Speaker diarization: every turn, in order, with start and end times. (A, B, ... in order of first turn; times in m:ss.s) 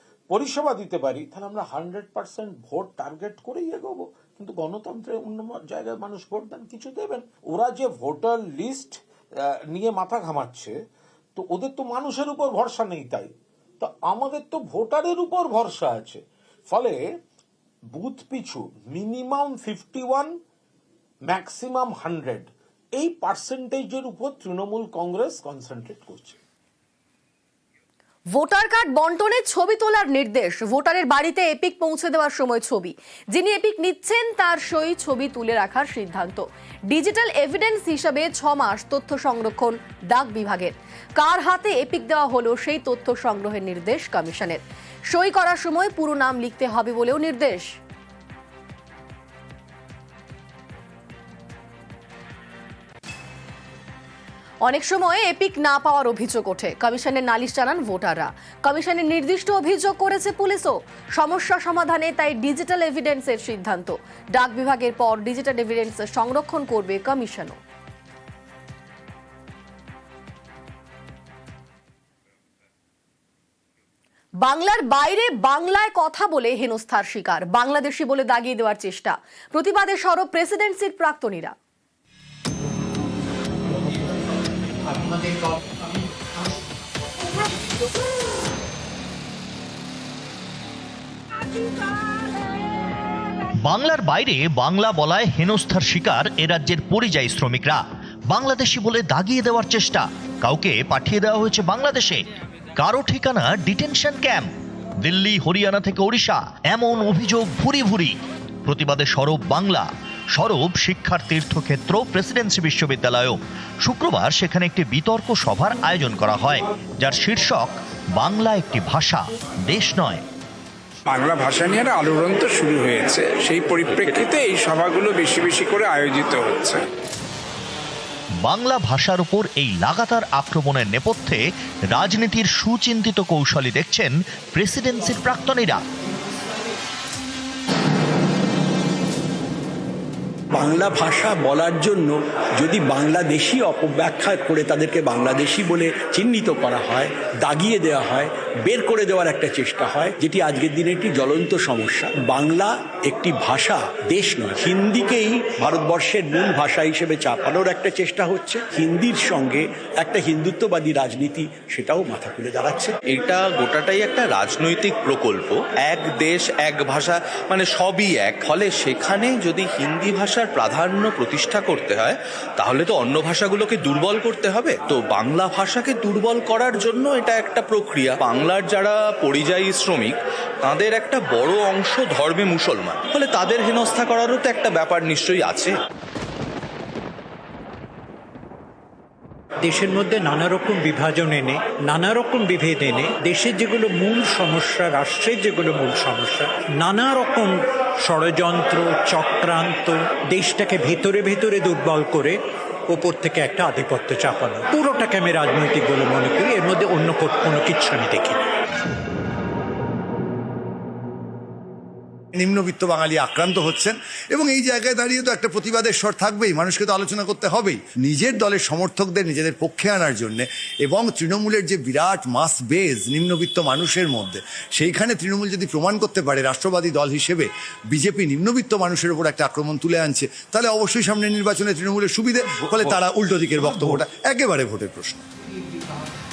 0:00.3-0:10.7 A
0:11.4-0:17.0 A
0:17.9-0:20.3 A
0:21.3-0:26.4 A
0:28.3-0:47.7 B
0:54.6-1:07.6 B
1:14.4-1:21.6 B
1:33.6-1:42.2 C
1:42.8-1:44.5 C
1:45.0-2:00.2 C
2:01.1-2:06.8 D
2:08.4-2:15.8 C
2:20.5-2:43.0 E
2:43.0-3:05.8 F
3:09.7-3:17.6 G
3:18.1-3:22.4 G
3:22.9-3:28.4 G
3:32.4-3:55.2 H
3:52.5-3:53.0 F
3:53.6-3:54.0 F